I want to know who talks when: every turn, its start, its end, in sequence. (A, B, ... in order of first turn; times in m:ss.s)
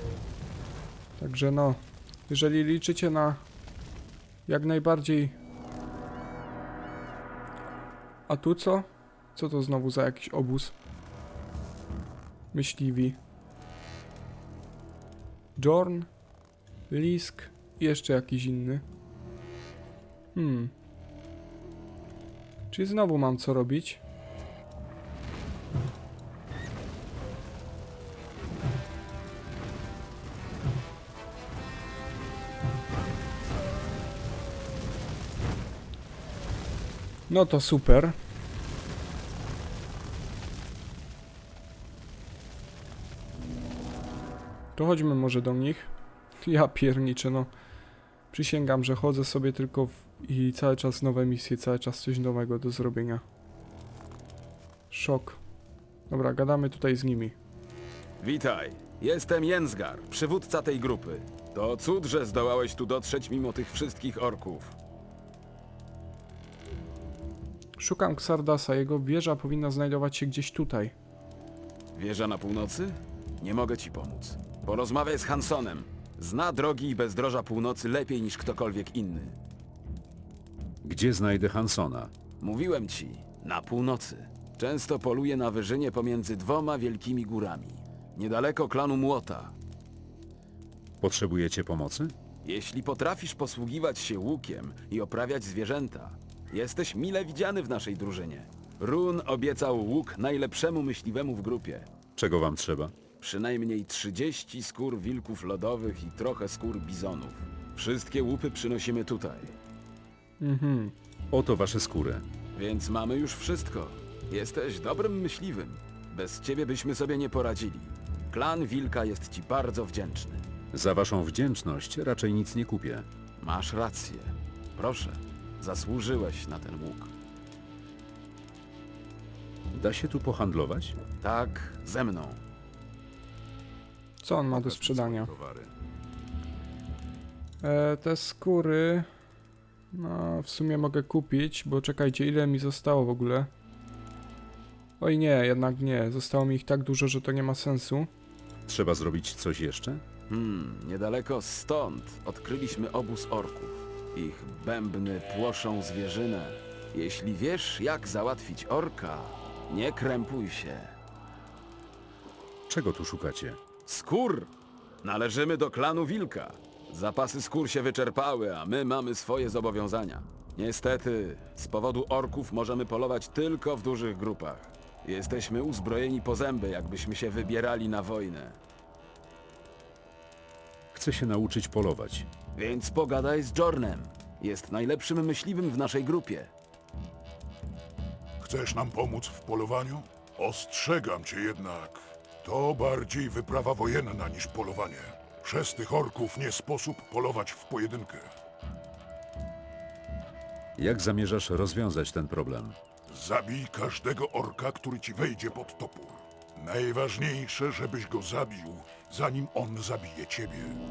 0:01.2-0:03.4 A
0:04.5-0:05.4 A
0:08.3-0:10.7 A
0:12.5-0:13.2 A
0:15.6-0:16.1 A
0:16.9-0:18.8 A
0:20.3-0:20.7 A
0:22.7-0:24.0 A
0:37.3-0:38.1 A
0:44.7-0:45.9 A
0:46.4-0:47.5 A
0:48.3-0:53.2 A
0:54.9-0:55.4 A
0:56.1-0:57.3 A
0:58.2-1:04.8 B
1:07.8-1:10.9 A
1:11.9-1:19.4 B
1:20.8-1:22.1 C
1:22.4-1:29.5 B
1:31.0-1:32.1 C
1:32.4-1:41.9 B
1:42.1-1:43.0 C
1:43.2-1:49.5 B
1:50.4-1:50.9 A
1:51.3-1:52.2 C
1:52.5-2:00.4 B
2:00.7-2:03.1 C
2:03.4-2:07.1 B
2:09.7-2:11.0 C
2:11.2-2:12.4 B
2:14.2-2:15.3 A
2:14.5-2:15.7 C
2:17.6-2:19.1 A
2:19.9-2:23.5 A
2:25.0-2:28.1 A
2:28.7-2:30.0 C
2:30.3-2:40.9 B
2:42.7-2:43.6 C
2:43.8-2:44.5 B
2:45.0-2:58.6 B
3:00.9-3:02.3 C
3:02.6-3:06.5 B
3:08.4-3:18.3 D
3:20.8-3:22.8 C
3:23.1-3:30.8 D